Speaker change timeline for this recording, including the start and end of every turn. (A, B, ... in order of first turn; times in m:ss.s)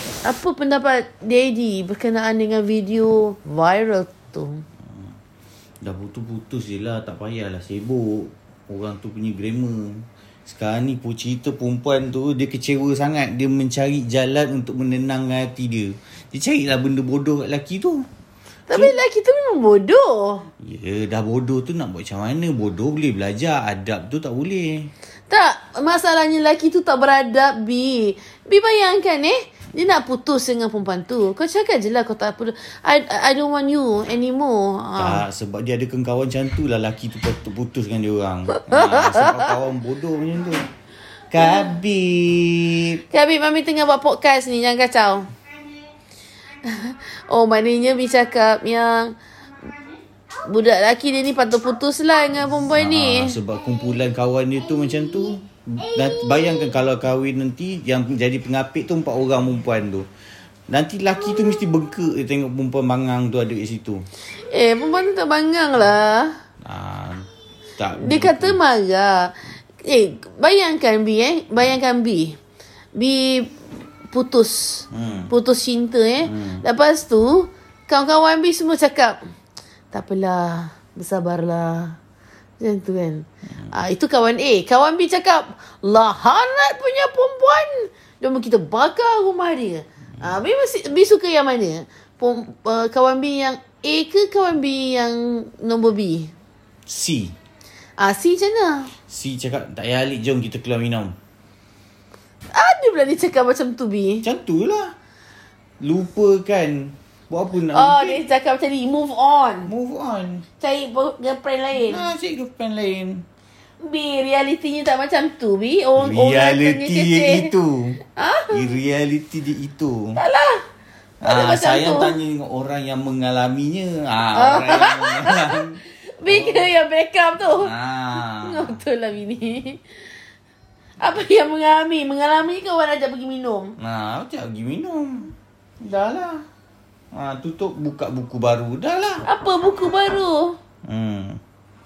0:00.2-0:04.6 A
0:04.8-0:05.1 B
0:05.8-0:18.0 B
0:18.7-0:19.0 B
0:18.7-0:20.4 A
0:20.6-0:24.9 B
0:25.3-0:35.2 A
0:35.0-0:40.7 B
0:38.5-0:39.5 A
0:41.3-0:43.0 B
0:43.1-0:45.3 A
0:46.6-0:49.1 A
0:50.4-0:53.4 A
0:52.7-1:00.1 B
1:00.7-1:04.0 B
1:04.3-1:06.4 A
1:06.6-1:07.2 B
1:07.8-1:08.6 B
1:08.0-1:12.4 A
1:12.9-1:13.5 A
1:14.1-1:19.2 A
1:14.9-1:15.3 B
1:16.2-1:16.6 B
1:19.9-1:22.0 A
1:22.6-1:36.3 A
1:36.9-1:37.3 B
1:38.0-1:38.9 A
1:39.1-1:41.2 B
1:42.5-1:44.2 A
1:44.2-1:44.9 B
1:45.8-1:48.2 B
1:47.7-1:49.7 A
1:49.7-1:50.4 B
1:50.6-1:52.0 A
1:51.8-1:53.2 B
1:53.8-1:57.5 A
1:56.0-2:00.2 B
1:58.1-1:58.6 A
2:00.2-2:00.6 A
2:01.2-2:02.2 A
2:01.2-2:06.7 B
2:04.3-2:07.7 A
2:07.5-2:08.8 B
2:08.2-2:09.8 A
2:11.0-2:13.7 A
2:13.8-2:16.4 B
2:17.1-2:19.2 B
2:19.2-2:20.6 A
2:20.9-2:21.4 B